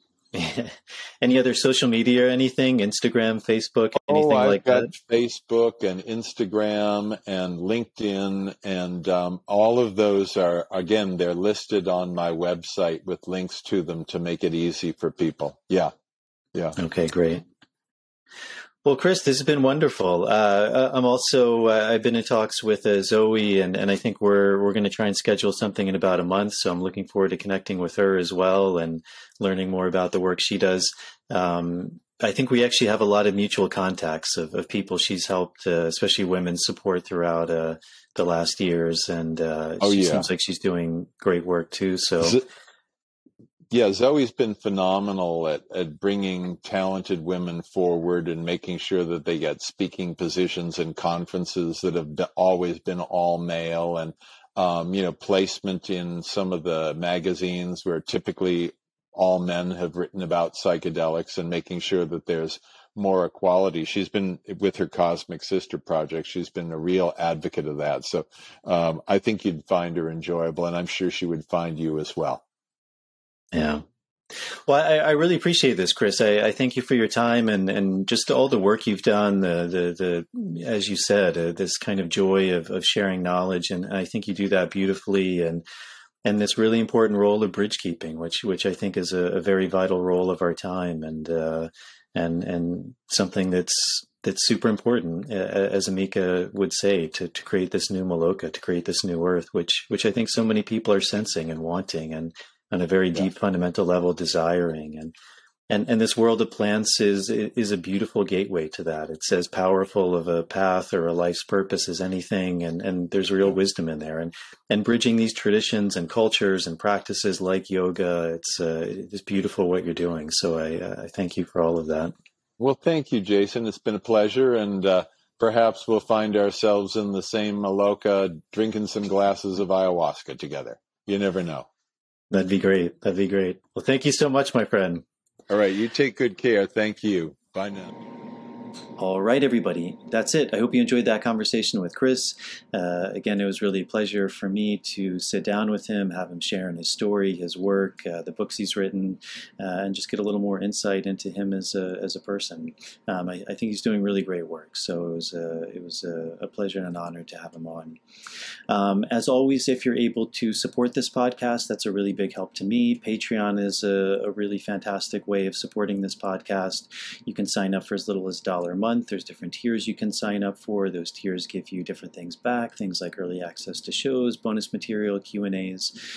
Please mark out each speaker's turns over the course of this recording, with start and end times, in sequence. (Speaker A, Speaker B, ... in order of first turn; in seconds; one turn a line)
Speaker A: 0.3-4.9
Speaker B: 4.0-15.9
Speaker A: 16.8-17.4
Speaker A: 18.8-42.4
Speaker B: 39.8-40.3
Speaker B: 43.7-72.4
Speaker A: 73.5-73.8
Speaker A: 74.7-85.6
Speaker A: 86.2-105.1
Speaker A: 105.7-122.1
Speaker B: 122.6-131.7
Speaker A: 132.3-135.0
Speaker B: 135.5-137.9
Speaker A: 139.0-158.0
Speaker A: 158.7-175.9